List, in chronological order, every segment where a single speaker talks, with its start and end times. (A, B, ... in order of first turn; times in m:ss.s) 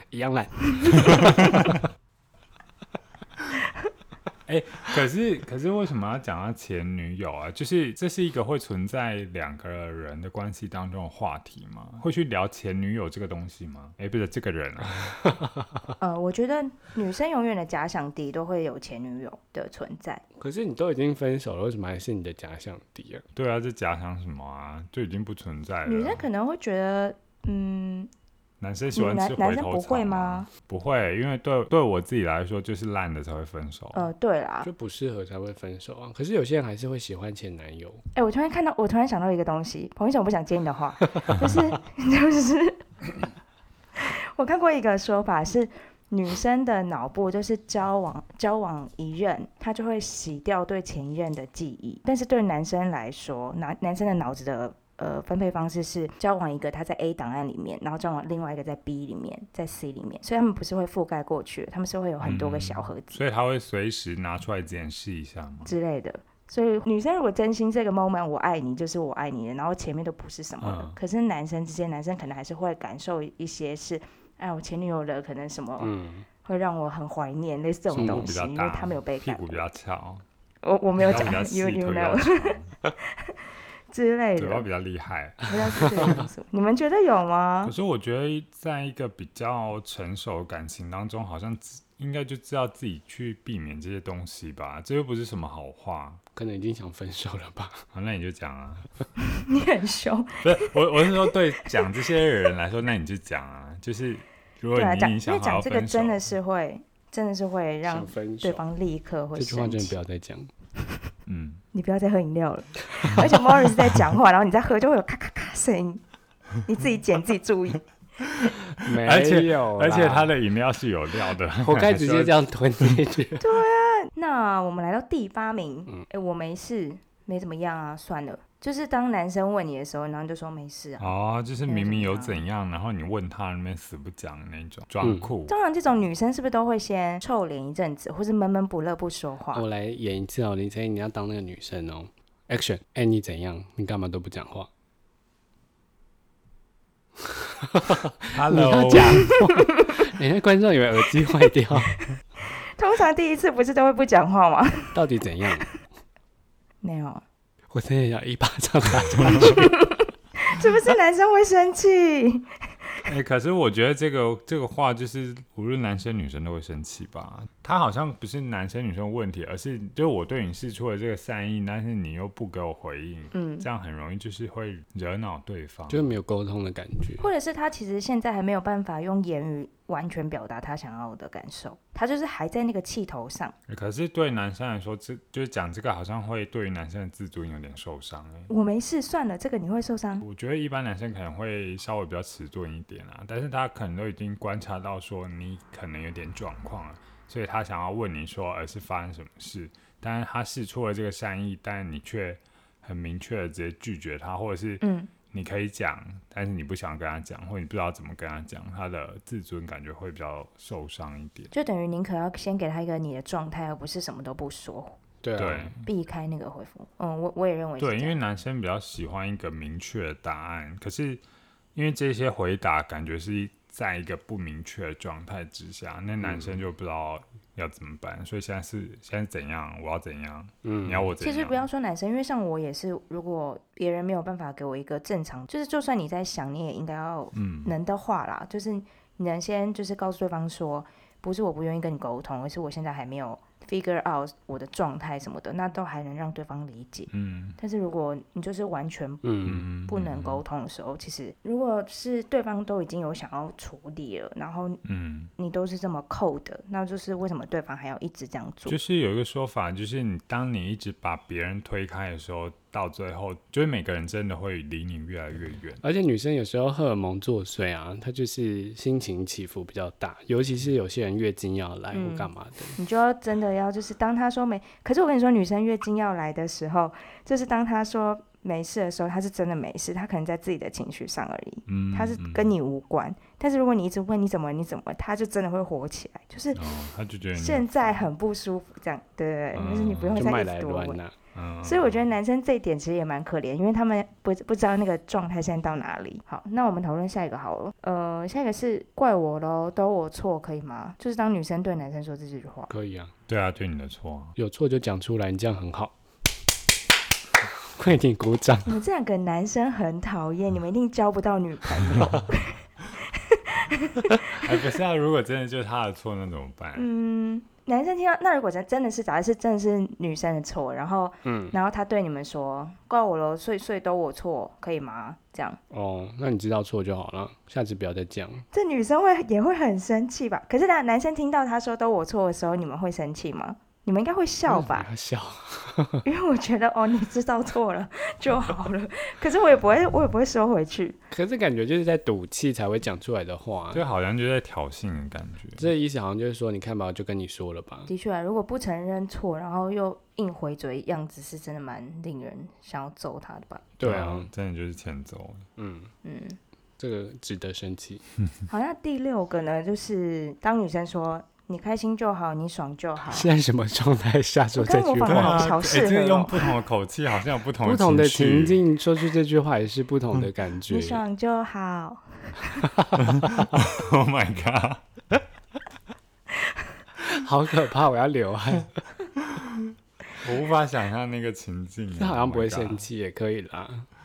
0:00.1-0:01.8 A
0:01.0-0:01.8 B
0:04.5-0:15.2 B
0:15.3-0:15.8 A
0:16.0-0:20.2 C
0:20.4-0:23.2 A
0:23.4-0:26.3 B
0:25.9-0:28.1 C
0:28.6-0:34.1 B
0:28.9-0:30.5 C
0:33.9-0:34.7 C
0:34.6-0:38.0 A
0:38.2-0:42.8 C
0:44.0-1:03.2 C
1:02.2-1:05.8 B
1:05.7-1:15.9 C
1:10.6-1:11.0 B
1:15.8-1:16.3 A
1:16.4-1:19.6 C
1:17.9-1:20.2 B
1:17.9-1:18.3 A
1:20.6-1:23.4 C
1:21.0-1:22.7 B
1:23.9-1:24.7 C
1:24.4-1:26.2 B
1:25.4-1:27.7 C
1:27.6-1:36.2 B
1:36.3-1:37.9 A
1:37.9-1:38.9 B
1:39.3-1:41.8 C
1:40.4-1:46.2 B
1:44.7-1:50.0 C
1:47.8-1:48.6 A
1:49.4-1:50.5 A
1:51.3-1:51.6 B
1:51.7-1:56.0 C
1:56.6-1:57.8 C
1:58.4-2:03.0 B
1:58.8-2:00.3 A
2:01.6-2:03.4 A
2:03.4-2:11.1 C
2:11.0-2:15.6 B
2:11.6-2:12.4 C
2:15.0-2:15.3 A
2:15.5-2:19.6 C
2:19.5-2:24.7 A
2:27.6-2:32.0 A
2:28.3-2:29.4 B
2:29.1-2:29.4 C
2:32.8-2:35.0 C
2:34.9-2:35.7 A
2:36.8-2:37.2 C
2:37.7-2:39.8 A
2:39.4-2:42.5 C
2:43.0-2:56.1 B
2:53.3-2:53.7 C
2:55.9-2:57.3 A
2:57.2-3:03.5 C
3:03.7-3:08.5 B
3:08.5-3:10.2 C
3:10.2-3:31.5 B
3:24.8-3:25.1 C
3:31.5-3:35.0 C
3:35.2-3:35.7 A
3:35.4-3:35.8 B
3:35.8-3:38.2 C
3:37.8-3:41.2 B
3:41.8-3:51.6 B
3:46.2-3:46.6 A
3:50.6-3:51.1 A
3:51.2-4:14.8 C
3:57.3-3:57.7 B
4:07.1-4:07.6 B
4:09.2-4:09.6 A
4:09.4-4:10.4 B
4:14.8-4:15.3 B
4:15.4-4:18.8 C
4:18.7-4:25.8 B
4:25.8-4:32.8 A
4:31.9-4:46.6 C
4:41.7-4:42.5 B
4:46.6-4:47.9 B
4:47.4-4:51.0 C
4:49.5-4:50.3 B
4:50.2-4:51.2 A
4:51.3-4:52.0 B
4:51.6-5:02.7 C
5:02.7-5:03.1 A
5:03.3-5:04.4 B
5:04.4-5:05.9 A
5:07.6-5:08.8 A
5:08.7-5:14.5 C
5:14.4-5:16.9 B
5:16.8-5:25.6 C
5:21.2-5:21.6 A
5:25.7-5:28.4 A
5:28.5-5:34.9 C
5:34.5-5:36.0 A
5:36.0-5:41.0 C
5:41.1-5:43.8 A
5:43.7-5:45.7 B
5:45.6-5:47.9 A
5:47.9-5:53.7 C
5:53.8-5:54.3 A
5:53.8-5:55.5 B
5:55.6-5:55.9 A
5:56.0-5:56.4 C
5:56.8-5:58.0 A
5:58.5-6:03.3 C
6:03.1-6:05.5 A
6:04.6-6:06.6 C
6:05.1-6:08.6 B
6:07.6-6:11.0 A
6:10.7-6:12.7 C
6:12.6-6:13.5 A
6:13.0-6:14.8 B
6:17.0-6:18.8 A
6:19.4-6:22.8 B
6:22.0-6:23.9 A